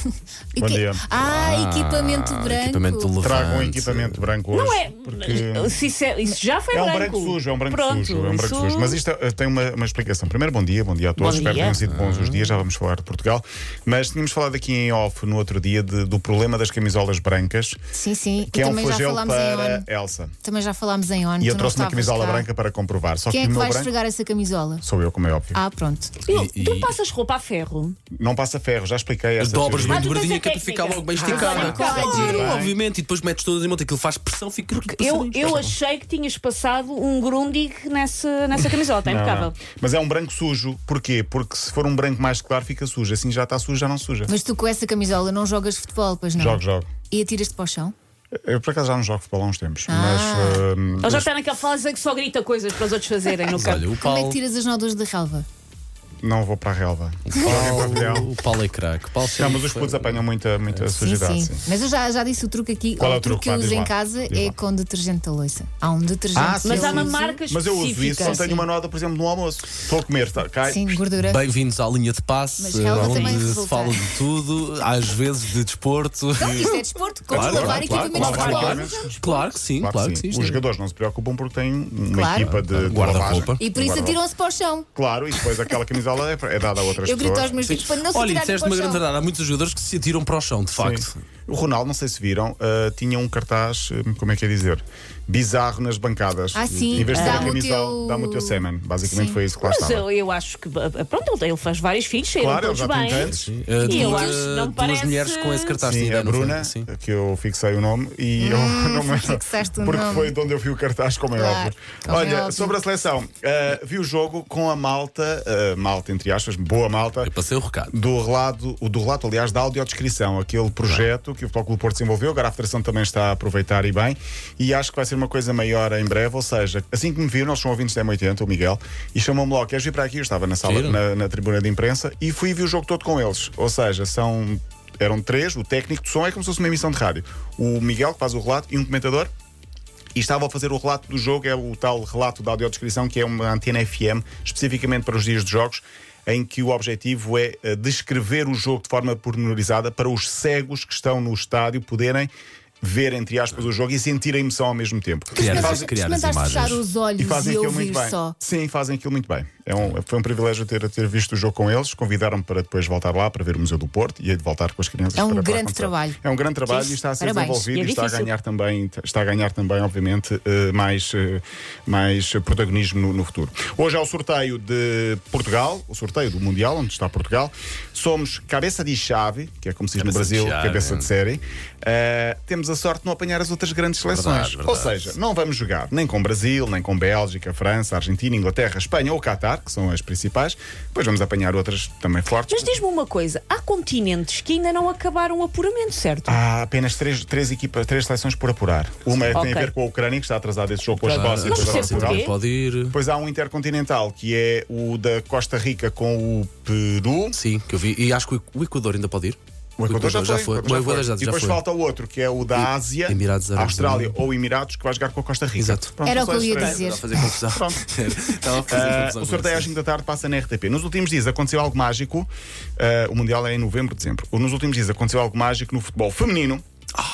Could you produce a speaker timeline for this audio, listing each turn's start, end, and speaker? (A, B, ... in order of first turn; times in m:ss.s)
0:00.5-0:03.1 A
0:00.6-0:01.0 B
0:01.2-0:04.2 C
0:03.2-0:05.9 B
0:04.5-0:09.0 D
0:06.7-0:17.8 B
0:11.2-0:11.8 D
0:11.3-0:12.6 C
0:17.9-0:19.9 A
0:18.5-0:20.4 B
0:20.4-0:22.5 A
0:21.4-0:23.9 B
0:23.3-0:24.8 A
0:24.8-0:25.6 B
0:25.5-0:26.1 A
0:26.3-0:27.0 C
0:26.3-0:28.0 D
0:28.1-0:30.1 B
0:29.4-0:35.6 C
0:29.9-0:32.6 D
0:31.3-0:32.6 A
0:31.3-0:32.8 B
0:34.9-0:39.6 D
0:35.4-0:35.8 B
0:39.0-0:44.3 B
0:44.3-0:47.9 A
0:46.4-0:46.9 B
0:48.4-0:51.3 B
0:49.9-0:50.7 A
0:51.0-0:53.9 D
0:53.4-0:54.4 C
0:54.0-0:55.5 A
0:56.2-0:58.3 B
0:57.3-1:00.2 C
0:59.3-1:01.7 B
1:00.9-1:07.4 A
1:03.0-1:04.6 B
1:06.3-1:11.0 B
1:06.6-1:08.6 D
1:08.1-1:08.7 A
1:10.6-1:11.4 A
1:11.2-1:20.6 C
1:12.6-1:14.0 A
1:12.9-1:13.4 D
1:16.4-1:19.4 A
1:17.3-1:24.2 B
1:22.1-1:22.5 A
1:22.4-1:23.6 C
1:23.6-1:24.9 A
1:25.0-1:27.6 B
1:27.0-1:29.0 A
1:27.6-1:31.2 C
1:30.8-1:40.0 B
1:36.6-1:39.4 A
1:36.7-1:37.4 C
1:37.1-1:37.6 D
1:39.6-1:45.8 D
1:42.4-1:43.5 B
1:43.2-1:46.9 C
1:43.9-1:44.3 A
1:45.8-1:57.3 B
1:48.4-1:50.4 A
1:51.3-1:52.8 A
1:57.2-1:57.9 C
1:57.9-2:19.3 B
2:10.6-2:11.0 C
2:20.2-2:35.9 B
2:35.3-2:36.8 C
2:35.4-2:38.4 A
2:37.2-3:12.8 B
2:45.2-2:46.2 A
2:46.7-2:46.9 D
2:47.2-2:47.7 A
2:47.7-2:48.3 D
3:00.0-3:01.1 C
3:04.1-3:05.1 C
3:12.5-3:16.4 D
3:16.3-3:22.2 B
3:19.3-3:19.7 D
3:21.0-3:22.4 D
3:21.0-3:23.0 C
3:22.9-3:27.4 B
3:27.3-3:31.6 C
3:29.8-3:36.8 B
3:32.5-3:34.2 C
3:35.6-3:35.9 C
3:36.0-3:37.1 A
3:36.5-3:39.7 C
3:37.4-3:37.9 B
3:38.6-3:46.6 B